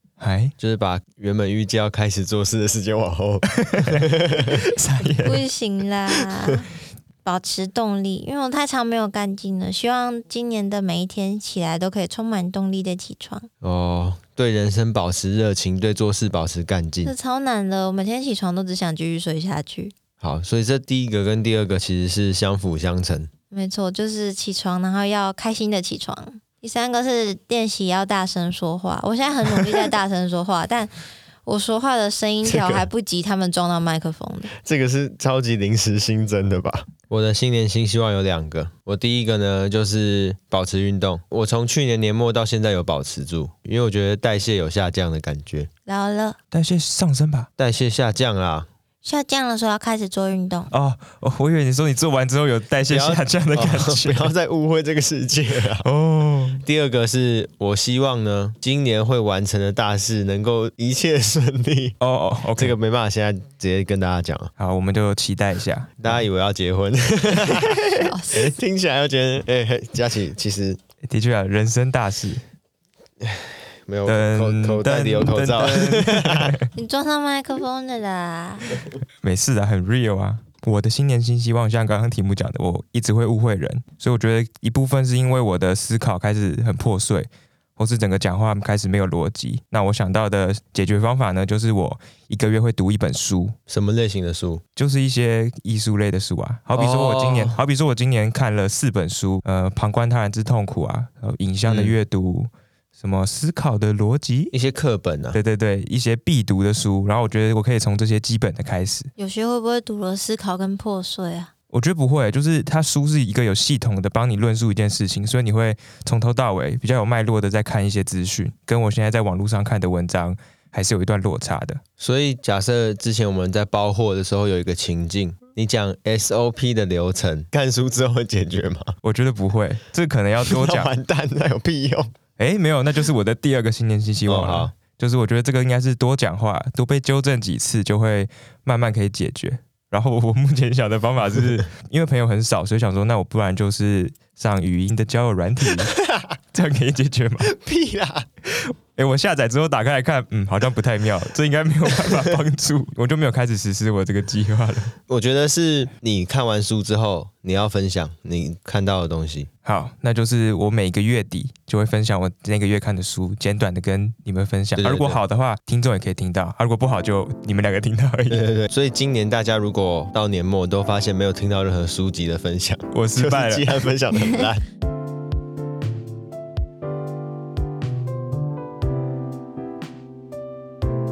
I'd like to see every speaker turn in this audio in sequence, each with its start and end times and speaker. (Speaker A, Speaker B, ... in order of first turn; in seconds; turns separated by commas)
Speaker A: 0.2-0.5, Speaker B: 0.6-4.6, Speaker A: 3.5-5.4, Speaker C: 5.2-6.7, Speaker C: 7.2-13.5, Speaker B: 13.6-17.1, Speaker C: 17.0-19.9, Speaker B: 20.2-23.3, Speaker C: 23.5-30.9, Speaker C: 31.4-34.5, Speaker B: 32.4-32.9, Speaker B: 34.5-45.7, Speaker C: 45.9-46.4, Speaker A: 46.5-47.5, Speaker B: 47.6-48.7, Speaker C: 49.0-50.7, Speaker A: 50.7-54.3, Speaker B: 52.9-55.9, Speaker A: 55.8-56.6, Speaker B: 56.6-62.0, Speaker A: 62.0-62.8, Speaker B: 62.6-64.5, Speaker A: 64.6-66.2, Speaker B: 66.0-70.8, Speaker C: 67.9-68.5, Speaker A: 71.0-72.4, Speaker B: 73.2-76.5, Speaker A: 74.1-76.7, Speaker C: 76.7-78.7, Speaker A: 79.2-93.5, Speaker B: 93.7-94.6, Speaker A: 94.8-104.5, Speaker B: 96.7-97.6, Speaker B: 101.6-102.0, Speaker B: 104.5-105.4, Speaker A: 105.3-109.1, Speaker C: 109.2-111.5, Speaker A: 111.7-121.8, Speaker B: 122.0-128.9, Speaker A: 129.0-130.9, Speaker B: 130.4-132.1, Speaker A: 132.4-145.9, Speaker B: 134.2-134.7, Speaker B: 145.9-146.3, Speaker A: 146.5-147.5, Speaker B: 147.4-148.3, Speaker A: 148.5-154.9, Speaker B: 152.0-152.3, Speaker B: 155.1-159.5, Speaker A: 159.6-168.5, Speaker B: 164.8-165.2, Speaker B: 168.3-174.6, Speaker A: 172.9-173.8